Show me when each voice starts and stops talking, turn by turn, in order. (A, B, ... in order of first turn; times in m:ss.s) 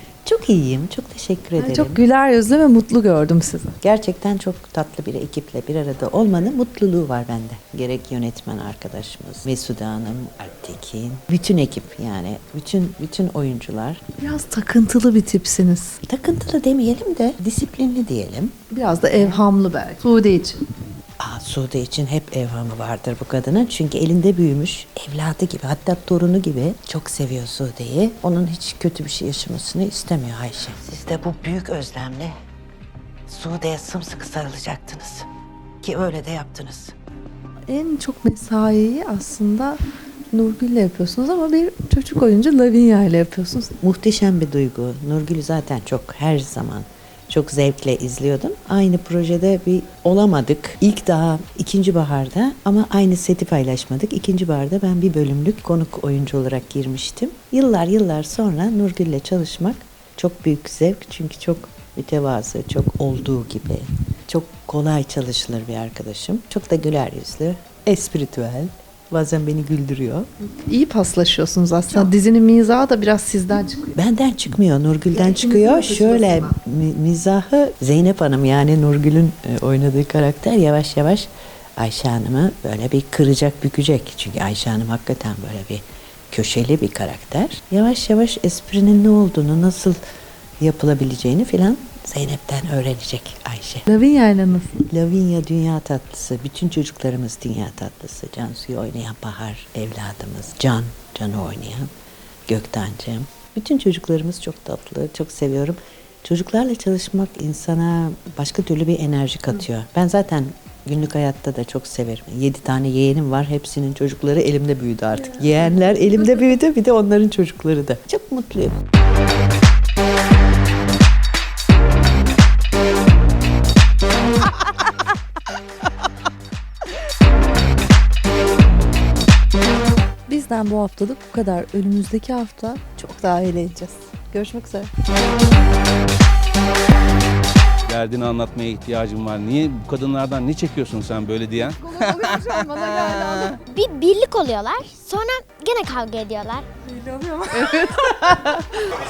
0:00.2-0:02.0 A
0:01.6-0:03.7 B
0:03.8-0:14.0 A
0:14.2-0:16.0 B
0:16.1-0:18.6 A
0:18.7-0:20.6 B
0:19.1-0:19.4 A
0:21.2-0:32.3 A
0:33.3-0:35.2 A
0:35.8-0:36.9 A
0:37.7-0:39.8 B
0:40.3-0:43.7 B
0:43.8-1:10.3 A
1:10.7-1:14.0 B
1:14.0-1:30.0 A
1:15.1-1:16.6 B
1:30.6-1:33.9 A
1:33.9-1:34.8 B
1:34.9-1:41.9 A
1:42.5-1:58.8 A
2:10.3-2:14.9 B
2:17.9-2:21.8 C
2:21.8-2:23.6 B
2:23.7-2:26.7 D
2:26.9-2:28.8 B